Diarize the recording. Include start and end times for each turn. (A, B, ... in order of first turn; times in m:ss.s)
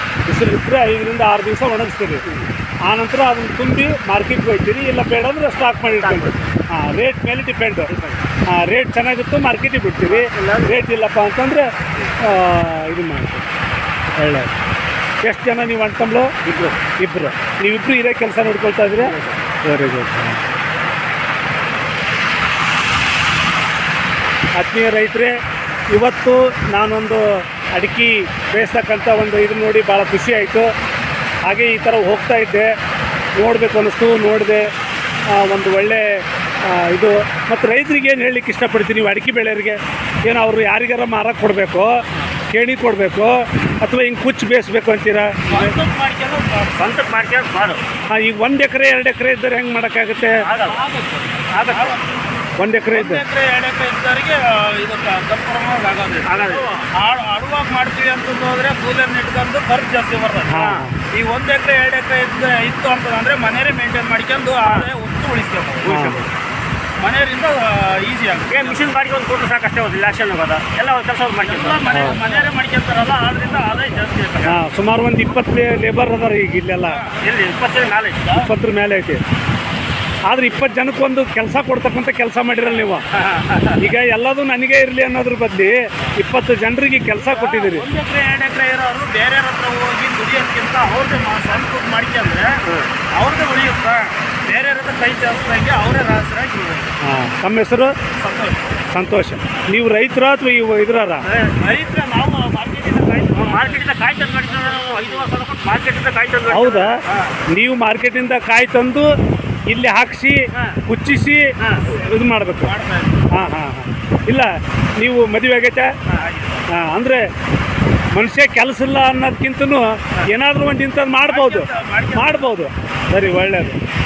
0:00.2-0:02.2 A
0:02.8-0:07.9 A
0:05.9-0:06.5 B
0:07.9-0:08.2 B
0:08.5-0:11.7 A
0:10.0-0:10.8 B
0:12.2-0:13.5 A
0:14.2-0:14.5 A
0:15.2-0:16.3 A
0:16.4-0:16.8 B
0:17.0-0:20.4 A
0:19.0-0:19.5 B
0:24.6-0:25.3 A
0:25.9-0:30.7 A
0:31.4-0:32.7 A
0:33.4-0:34.6 A
0:35.3-0:45.8 A
0:45.5-0:46.8 C
0:46.7-0:47.8 B
0:48.1-0:50.4 A
0:50.3-0:50.9 B
0:50.6-0:52.4 C
0:51.5-0:52.0 B
0:52.5-0:53.2 A
0:52.9-1:06.1 C
0:56.2-0:56.9 B
1:00.5-1:01.0 A
1:00.6-1:00.9 B
1:04.6-1:04.9 B
1:05.8-1:06.3 B
1:05.8-1:06.3 A
1:07.0-1:08.9 C
1:08.5-1:12.5 B
1:11.4-1:14.3 C
1:11.9-1:12.2 A
1:13.6-1:14.6 B
1:14.4-1:17.0 A
1:17.1-1:18.4 B
1:18.3-1:19.2 A
1:20.3-1:23.0 A
1:23.1-1:23.9 B
1:23.6-1:27.9 A
1:27.1-1:36.9 C
1:32.6-1:33.0 B
1:37.0-1:37.9 A
1:38.2-1:38.7 C
1:38.9-1:41.3 A
1:41.2-1:41.6 B
1:41.6-1:45.3 C
1:43.3-1:46.9 B
1:46.5-1:47.0 A
1:47.0-1:47.4 C
1:47.5-1:49.1 A
1:49.7-1:52.8 A
1:50.5-1:50.8 B
1:51.6-1:52.0 B
1:52.6-1:53.3 C
1:53.3-1:55.9 A
1:56.1-1:56.6 C
1:56.7-1:57.2 A
1:58.1-2:03.8 A
2:01.2-2:02.6 C